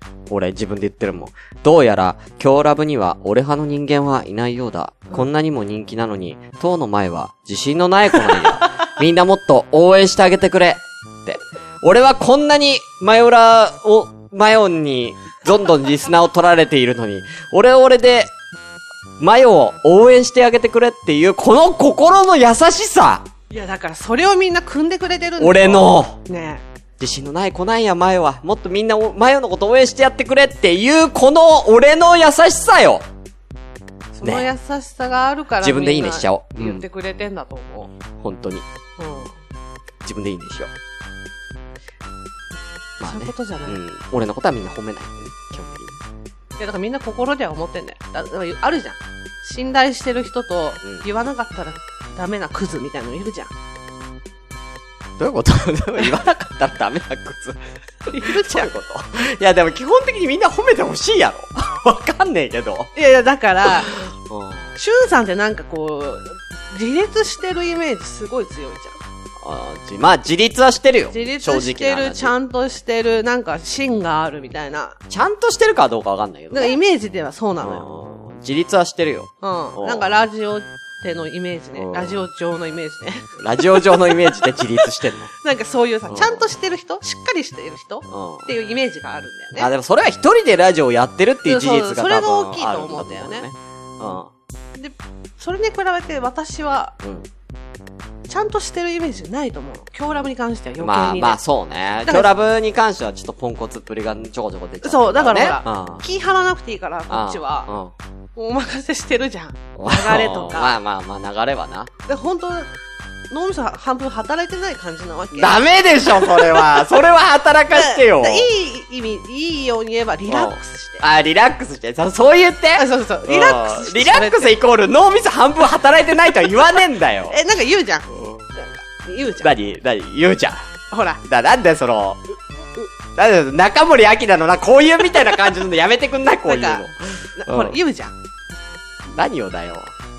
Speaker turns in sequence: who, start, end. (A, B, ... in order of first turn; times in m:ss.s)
0:00.3-0:18.3 A
0:19.2-0:23.3 A
0:23.5-0:26.6 B
0:25.4-0:26.2 A
0:27.0-0:33.0 A
0:34.1-0:37.9 B
0:34.2-0:34.5 A
0:35.6-0:36.8 A
0:38.2-0:38.6 A
0:39.0-0:39.3 B
0:40.0-0:40.7 A
0:43.0-0:46.0 A
0:43.0-0:43.8 B
0:46.6-0:53.5 B
0:55.2-1:02.9 A
0:58.1-0:58.7 B
1:03.0-1:03.9 B
1:03.6-1:04.7 A
1:04.8-1:09.0 B
1:09.4-1:12.3 A
1:11.1-1:15.0 B
1:15.1-1:16.8 A
1:16.5-1:17.8 B
1:17.6-1:20.1 A
1:19.4-1:24.9 B
1:21.8-1:22.2 A
1:23.4-1:25.3 A
1:25.4-1:29.7 B
1:26.1-1:26.5 A
1:28.1-1:28.5 A
1:29.6-1:34.3 A
1:31.4-1:33.5 B
1:34.7-1:36.9 B
1:37.0-1:37.3 A
1:38.3-1:41.4 B
1:40.8-1:46.0 A
1:42.0-1:42.3 B
1:44.8-1:47.7 B
1:47.1-1:47.9 A
1:48.3-1:50.7 B
1:49.8-1:51.9 A
1:52.0-1:52.7 B
1:53.3-1:57.0 B
1:55.3-1:58.5 A
1:57.7-2:01.0 B
2:00.3-2:07.4 A
2:02.7-2:04.6 B
2:07.3-2:09.5 B
2:08.1-2:08.5 A
2:09.4-2:10.7 A
2:10.9-2:11.2 B
2:11.2-2:12.2 A
2:13.1-2:17.8 A
2:16.4-2:18.1 B
2:19.1-2:19.9 A